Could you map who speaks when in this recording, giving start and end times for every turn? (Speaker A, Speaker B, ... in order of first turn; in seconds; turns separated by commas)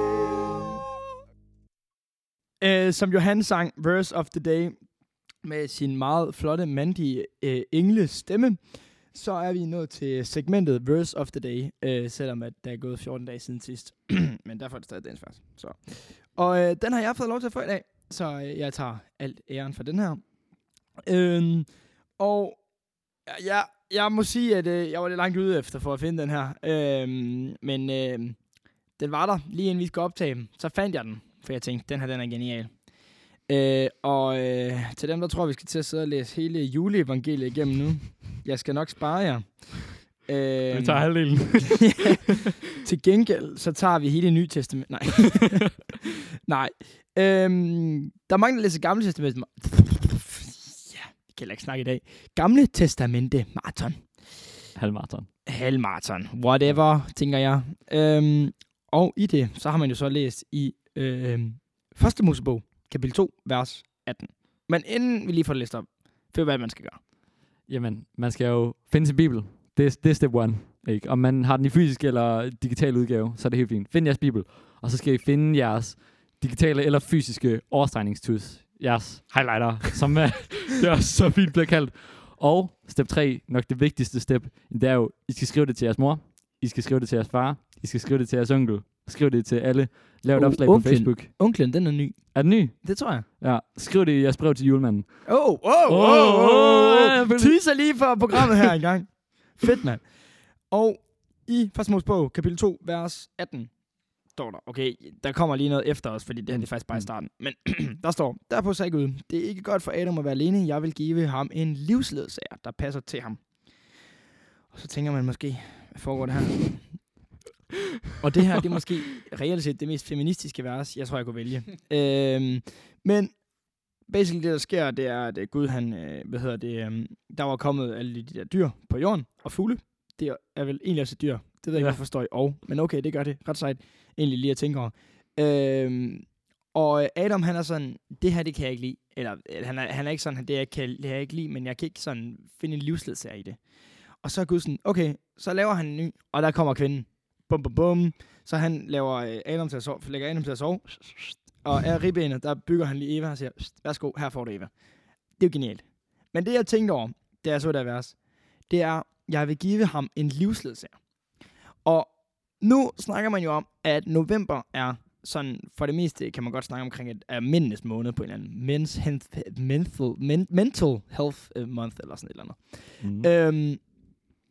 Speaker A: 2.6-45.9, Speaker B: 40.7-42.0, Speaker A: 46.5-54.6, Speaker B: 54.7-55.3, Speaker A: 55.5-67.0, Speaker B: 67.7-98.2, Speaker A: 90.4-93.3, Speaker A: 95.2-114.0, Speaker B: 106.5-107.1, Speaker A: 114.7-117.1, Speaker A: 118.2-174.2, Speaker B: 131.7-132.0, Speaker B: 173.0-173.3